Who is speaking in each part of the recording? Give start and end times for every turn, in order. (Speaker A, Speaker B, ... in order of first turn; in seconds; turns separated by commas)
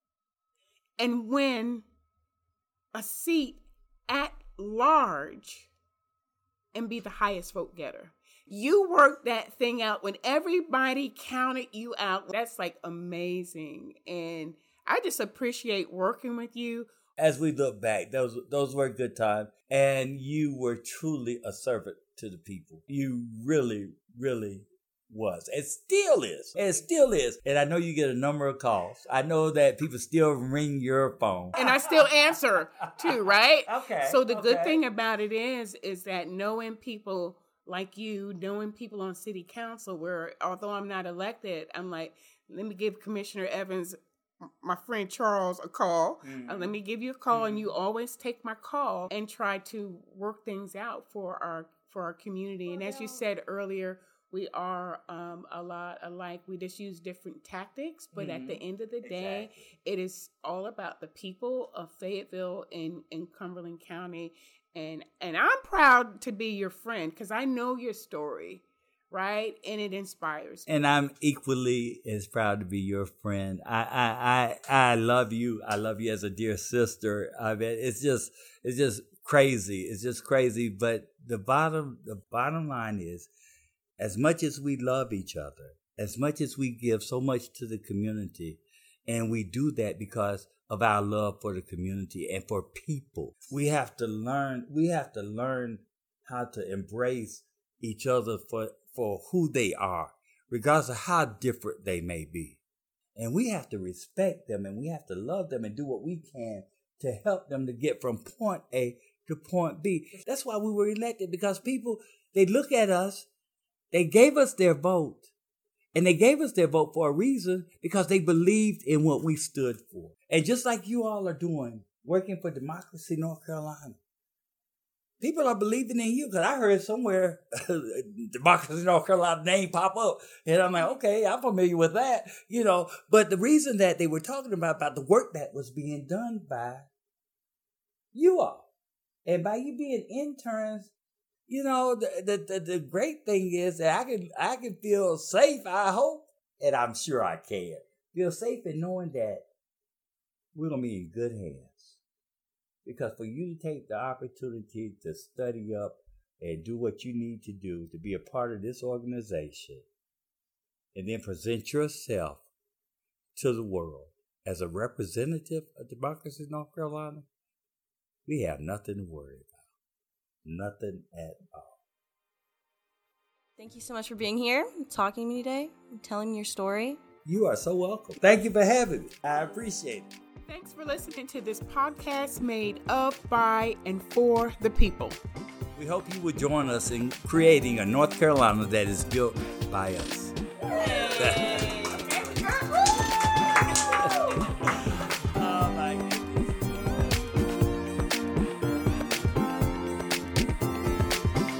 Speaker A: 1.0-1.8, Speaker A: 2.9-5.7, Speaker A: 6.7-16.9, Speaker B: 17.2-32.1, Speaker A: 31.5-70.7, Speaker B: 32.8-34.8, Speaker B: 46.2-46.8, Speaker B: 47.3-47.7, Speaker B: 58.1-59.7, Speaker B: 70.7-83.3, Speaker B: 84.0-102.6, Speaker B: 103.2-113.3, Speaker B: 113.9-115.3, Speaker B: 115.9-124.0, Speaker B: 125.2-136.9, Speaker B: 138.1-138.6, Speaker B: 139.2-140.9, Speaker B: 141.5-149.4, Speaker B: 150.5-152.0, Speaker B: 152.8-159.8, Speaker B: 160.9-162.4, Speaker B: 163.3-167.2, Speaker B: 168.2-169.6, Speaker B: 170.4-171.8, Speaker C: 173.6-177.0, Speaker B: 177.2-180.1, Speaker A: 180.5-185.2, Speaker B: 185.8-190.3, Speaker C: 190.9-192.0, Speaker B: 191.1-192.1, Speaker B: 192.8-197.2